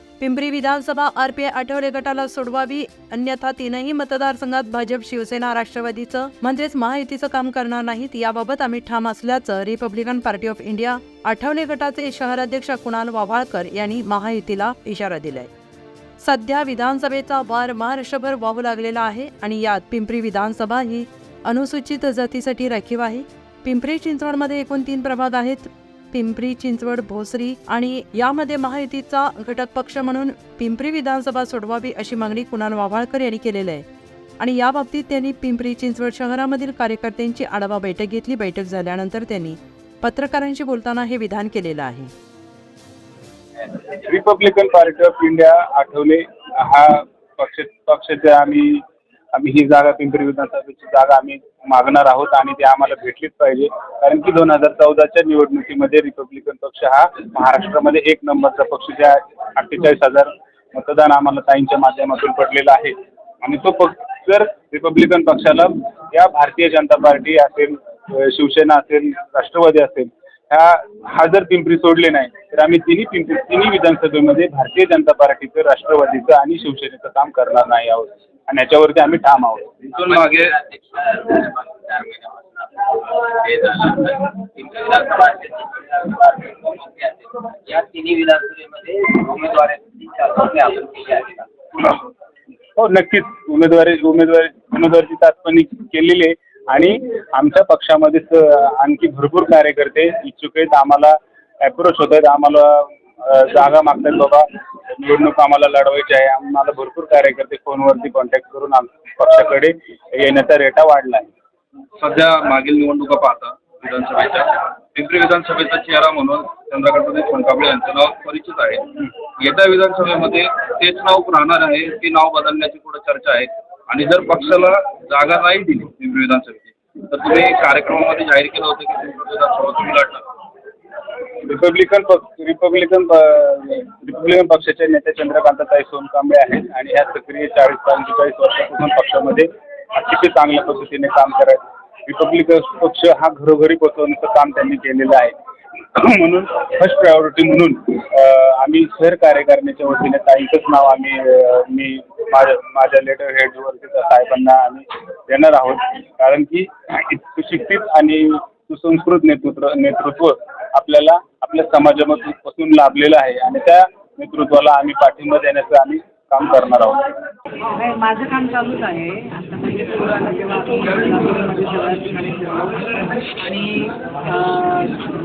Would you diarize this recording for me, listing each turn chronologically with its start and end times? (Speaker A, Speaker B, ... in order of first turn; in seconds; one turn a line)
Speaker A: 0.2-15.5
Speaker A: 16.2-33.9
Speaker A: 34.4-42.1
Speaker B: 43.9-48.8
Speaker B: 49.3-80.0
Speaker C: 80.0-91.5
Speaker B: 92.8-111.3
Speaker D: 112.0-118.9
Speaker D: 119.4-130.2
Speaker B: 131.4-145.3
Speaker B: 145.9-167.0
Speaker E: 167.6-172.8
Speaker E: 173.3-175.0